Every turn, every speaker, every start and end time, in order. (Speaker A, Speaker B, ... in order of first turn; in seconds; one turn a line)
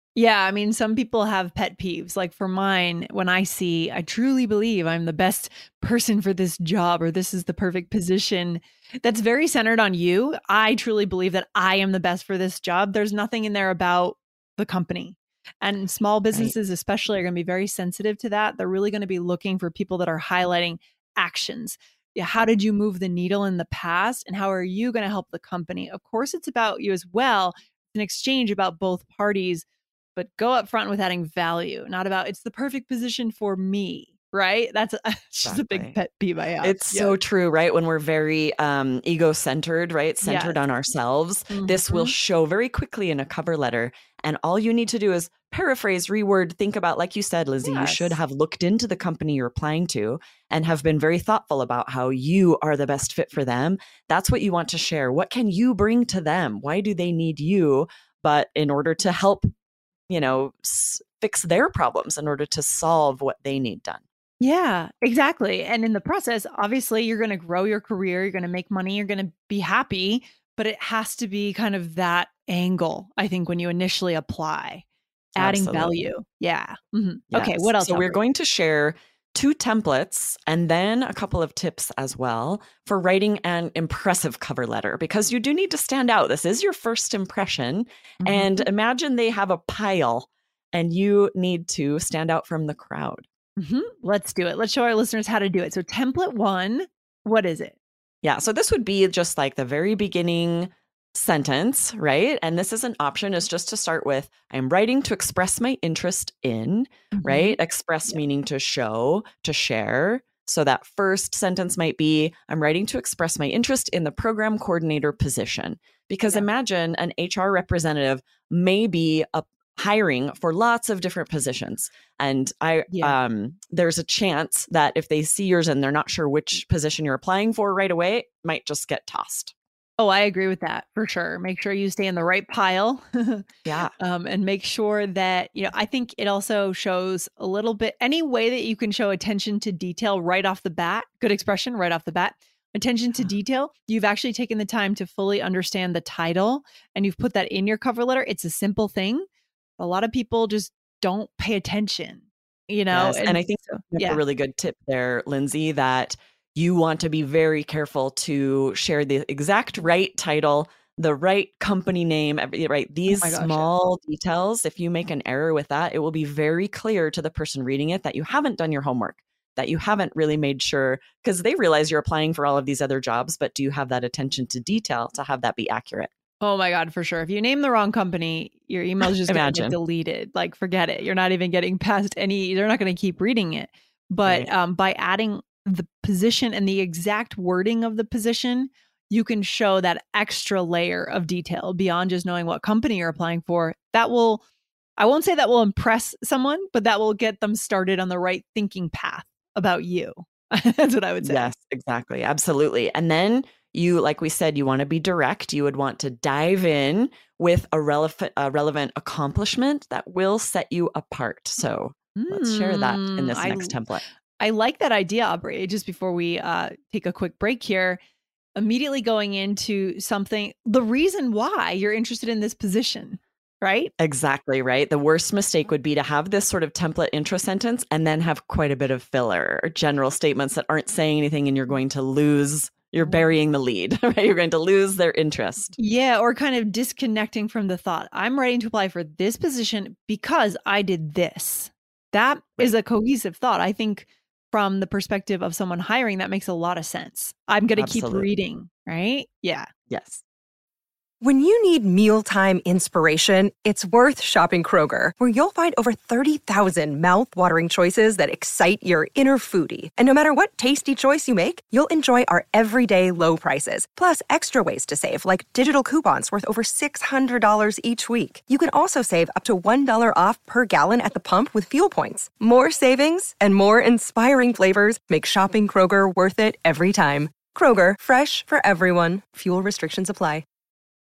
Speaker A: 0.1-29.6
Speaker A: 30.1-37.1
Speaker B: 35.4-36.0
Speaker B: 36.6-59.5
Speaker A: 40.2-40.6
Speaker A: 41.5-42.1
Speaker A: 47.6-48.2
Speaker B: 60.1-64.0
Speaker A: 64.4-74.8
Speaker B: 75.3-76.1
Speaker A: 75.4-78.2
Speaker B: 77.3-93.3
Speaker A: 88.2-88.7
Speaker A: 93.6-97.8
Speaker B: 98.2-129.5
Speaker A: 107.1-107.5
Speaker A: 122.9-123.2
Speaker A: 130.0-133.4
Speaker B: 133.6-133.9
Speaker A: 134.0-149.2
Speaker A: 149.8-154.2
Speaker B: 152.9-176.1
Speaker A: 163.1-163.7
Speaker A: 176.4-194.4
Speaker B: 179.1-179.8
Speaker A: 195.0-201.5
Speaker B: 201.2-214.0
Speaker A: 212.2-213.8
Speaker A: 214.4-218.0
Speaker A: 218.6-223.9
Speaker B: 224.0-235.7
Speaker A: 235.8-249.7
Speaker B: 247.8-248.3
Speaker B: 249.9-250.2
Speaker C: 251.2-280.4